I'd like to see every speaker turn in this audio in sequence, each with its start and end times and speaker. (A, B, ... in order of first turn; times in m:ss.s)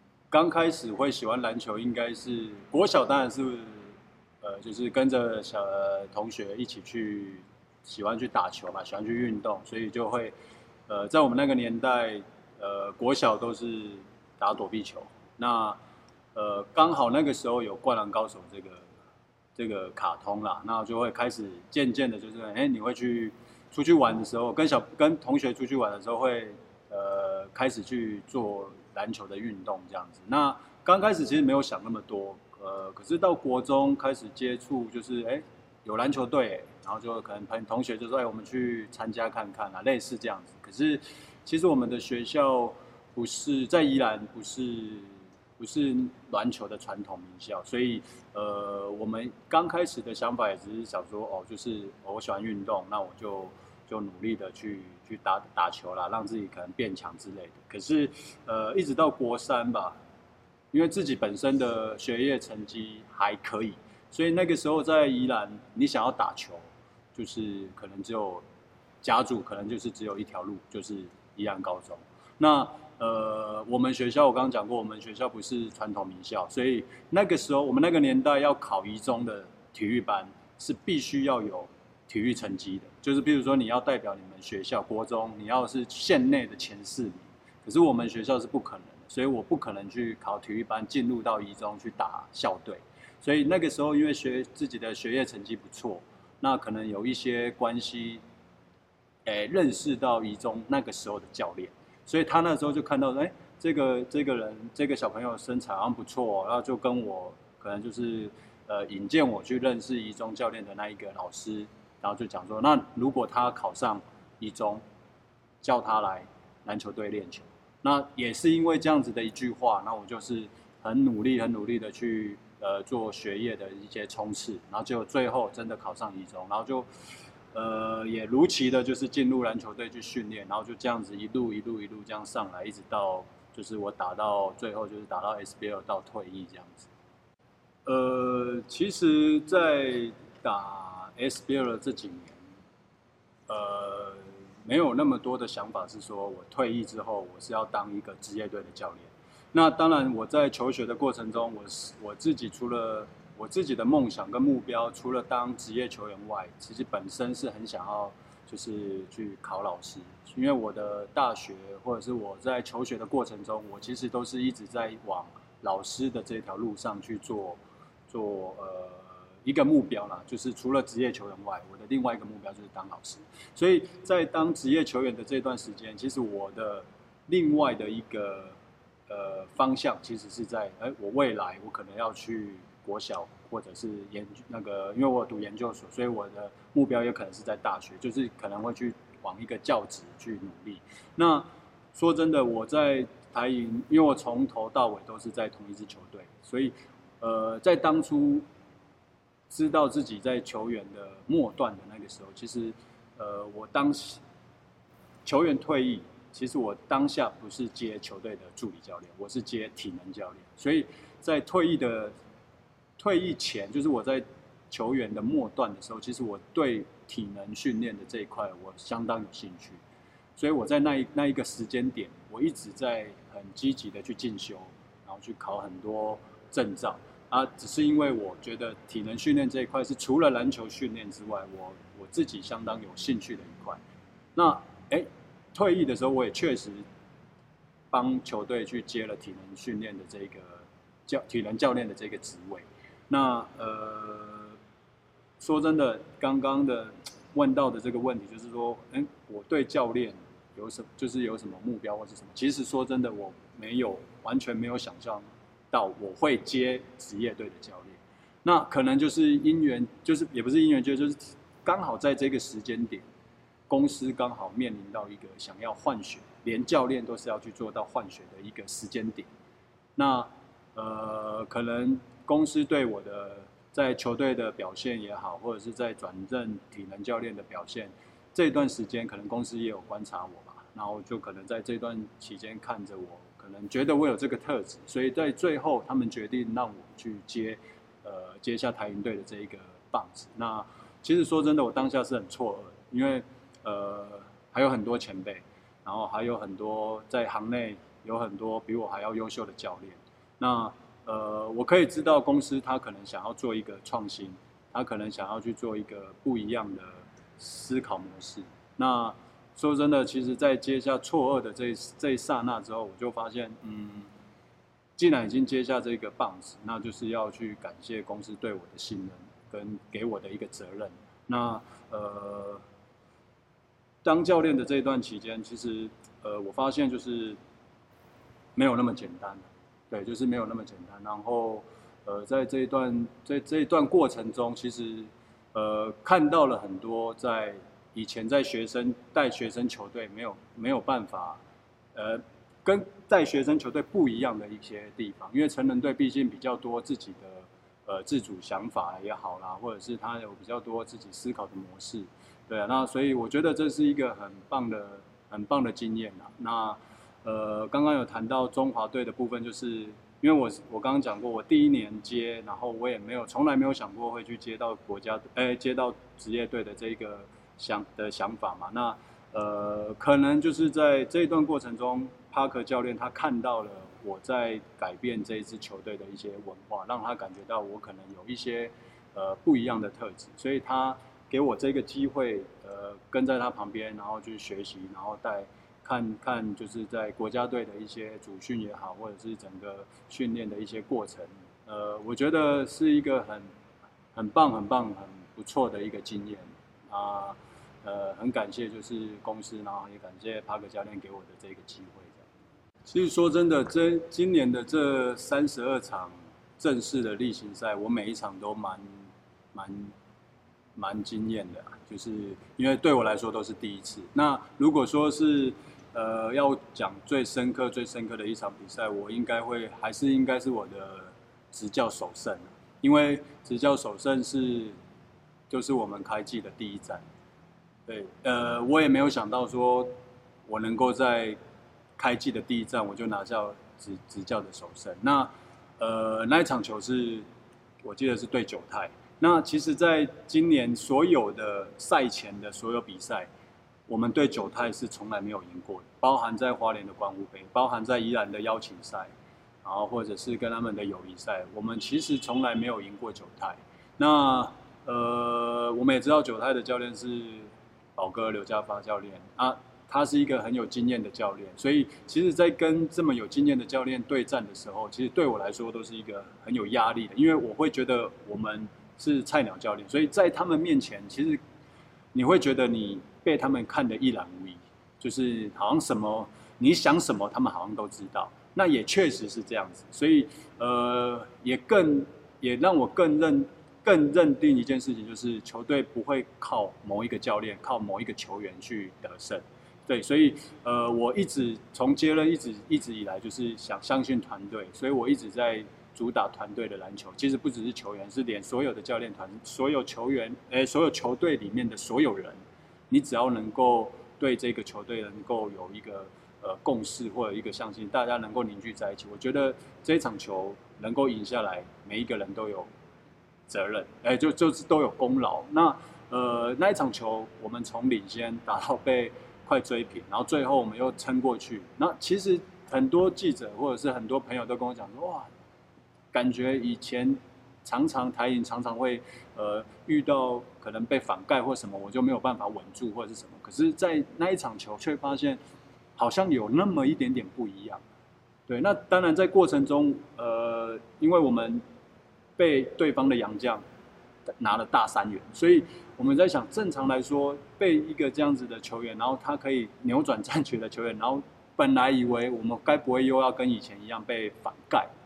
0:00.3-0:10.3 A
0:10.9-0:15.8 A
0:16.3-0:18.9 A
0:19.6-1:00.0 A
1:00.7-1:08.4 A
1:09.0-1:38.2 A
1:39.2-1:54.8 A
1:55.6-2:06.9 A
2:07.5-2:16.9 A
2:17.8-2:22.4 A
2:23.5-2:58.6 A
2:59.1-3:18.4 A
3:19.5-3:24.2 A
3:25.2-3:32.1 A
3:33.0-3:39.8 A
3:40.4-3:53.8 A
3:54.3-3:56.8 A
3:57.9-4:04.6 A
4:05.4-4:23.0 A
4:23.7-4:29.3 A
4:30.0-5:14.1 A
5:15.0-5:22.6 A
5:24.0-5:27.4 A
5:28.6-5:41.4 A
5:41.9-6:33.5 A
6:34.1-6:42.3 A
6:42.9-6:49.0 A
6:49.5-6:49.9 A
6:50.8-7:04.8 A
7:05.5-7:07.0 A
7:07.9-7:09.9 A
7:10.5-7:11.4 A
7:12.0-7:17.2 A
7:17.8-7:23.3 A
7:23.9-7:29.1 A
7:29.6-7:51.4 A
7:52.1-8:32.7 A
8:33.5-8:45.3 A
8:46.1-8:55.4 A
8:56.0-8:57.8 A
8:58.5-9:01.6 A
9:02.4-9:03.6 A
9:04.4-9:14.9 A